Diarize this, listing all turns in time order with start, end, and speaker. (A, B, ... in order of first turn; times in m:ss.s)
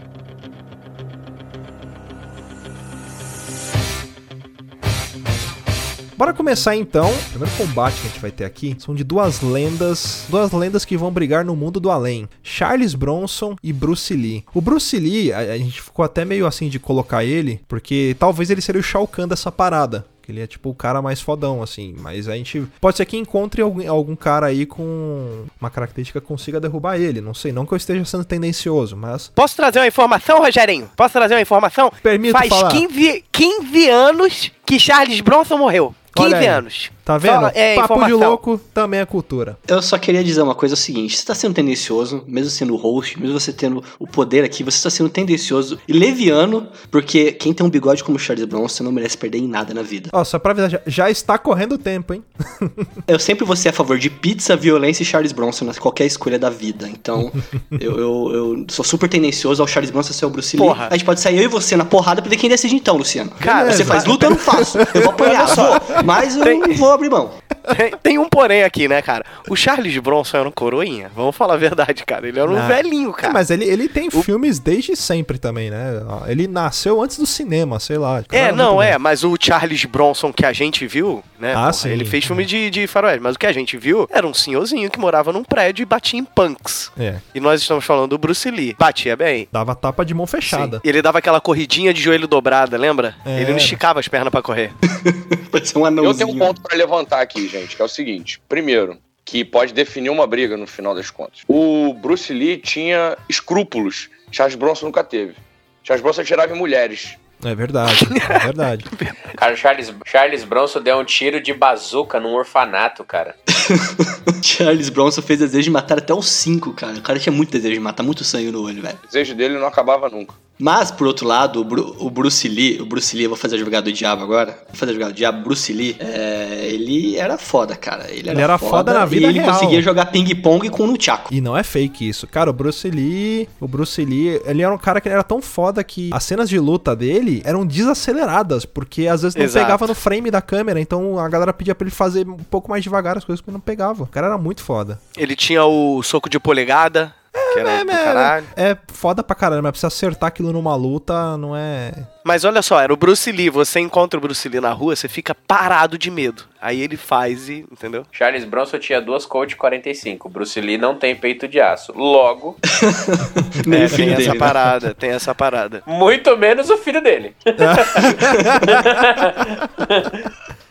0:06.2-0:29.3 A
0:29.4-0:38.4 B
0:32.0-0:32.8 A
0:36.1-0:39.6 A
0:39.7-0:50.1 C
0:50.1-0:53.0 A
0:53.1-1:07.4 C
1:00.6-1:00.9 B
1:03.4-1:06.9 B
1:03.4-1:06.1 A
1:07.7-1:13.4 B
1:12.5-1:19.0 A
1:18.3-1:29.5 B
1:21.5-1:22.5 A
1:27.0-1:27.2 A
1:29.5-1:30.8 A
1:30.4-1:34.8 B
1:33.2-1:33.8 A
1:34.8-1:36.6 C
1:36.0-1:47.2 D
1:47.4-1:48.9 A
1:47.9-1:49.4 B
1:49.3-1:53.3 E
1:53.5-1:59.0 C
1:59.0-2:00.4 D
2:00.6-2:11.3 C
2:08.3-2:09.8 A
2:11.3-2:25.0 A
2:19.4-2:19.9 B
2:25.2-2:28.5 B
2:27.3-2:32.1 A
2:32.2-2:38.1 B
2:38.1-2:42.6 E
2:42.6-2:44.6 C
2:43.7-2:45.8 B
2:44.0-2:44.3 A
2:45.8-2:50.3 E
2:47.6-2:49.4 A
2:48.2-2:48.6 C